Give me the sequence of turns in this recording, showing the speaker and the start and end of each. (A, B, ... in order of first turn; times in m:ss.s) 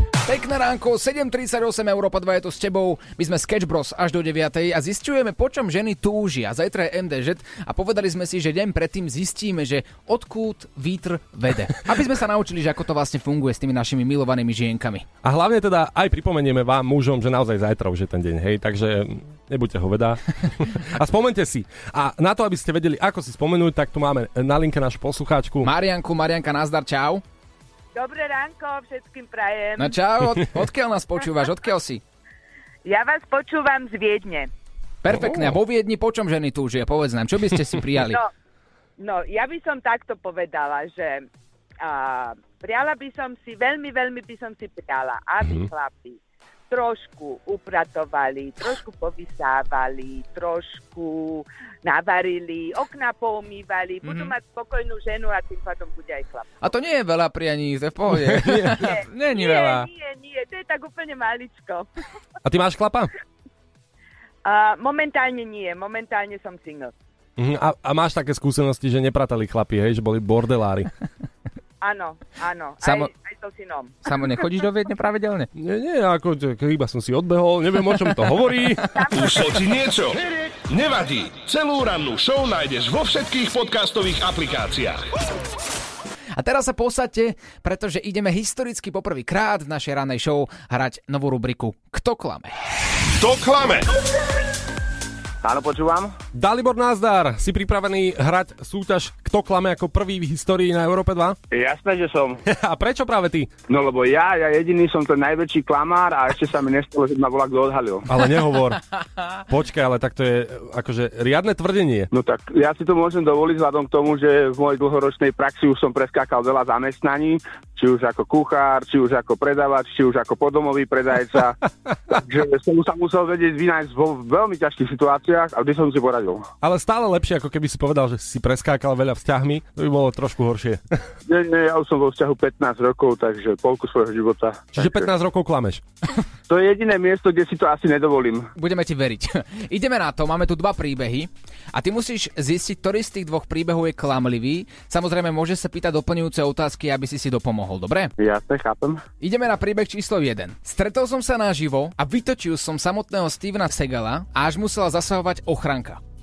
0:00.2-0:15.1 A
0:15.2-0:25.7 B
0:25.6-0:27.2 A
0:28.0-0:30.0 C
0:29.8-0:32.0 A
0:32.8-0:34.5 C
0:35.0-0:38.2 A
0:35.1-0:35.6 B
0:38.0-0:38.3 C
0:39.0-0:41.3 C
0:41.8-0:46.2 C
0:45.4-0:45.7 B
0:46.7-0:56.5 C
0:54.0-0:54.3 A
0:56.6-0:59.9 A
0:58.2-0:58.8 B
0:58.7-1:01.9 C
1:02.4-1:03.1 B
1:04.4-1:06.9 C
1:07.4-1:10.9 B
1:11.8-1:14.4 C
1:12.8-1:13.1 A
1:14.0-1:15.5 A
1:15.6-1:18.9 B
1:19.0-1:19.4 C
1:19.1-1:25.1 D
1:26.4-1:32.6 A
1:33.2-1:33.9 D
1:35.4-1:36.1 E
1:36.3-1:41.4 B
1:41.5-1:42.4 E
1:42.4-1:43.5 B
1:43.7-1:48.1 E
1:48.1-1:48.8 B
1:49.5-1:52.1 B
1:52.1-2:01.6 E
2:02.1-2:06.5 E
2:06.6-2:10.8 B
2:11.3-2:15.1 E
2:14.7-2:15.8 B
2:16.5-2:18.5 E
2:18.6-2:28.1 A
2:28.2-2:29.0 E
2:29.2-2:36.0 A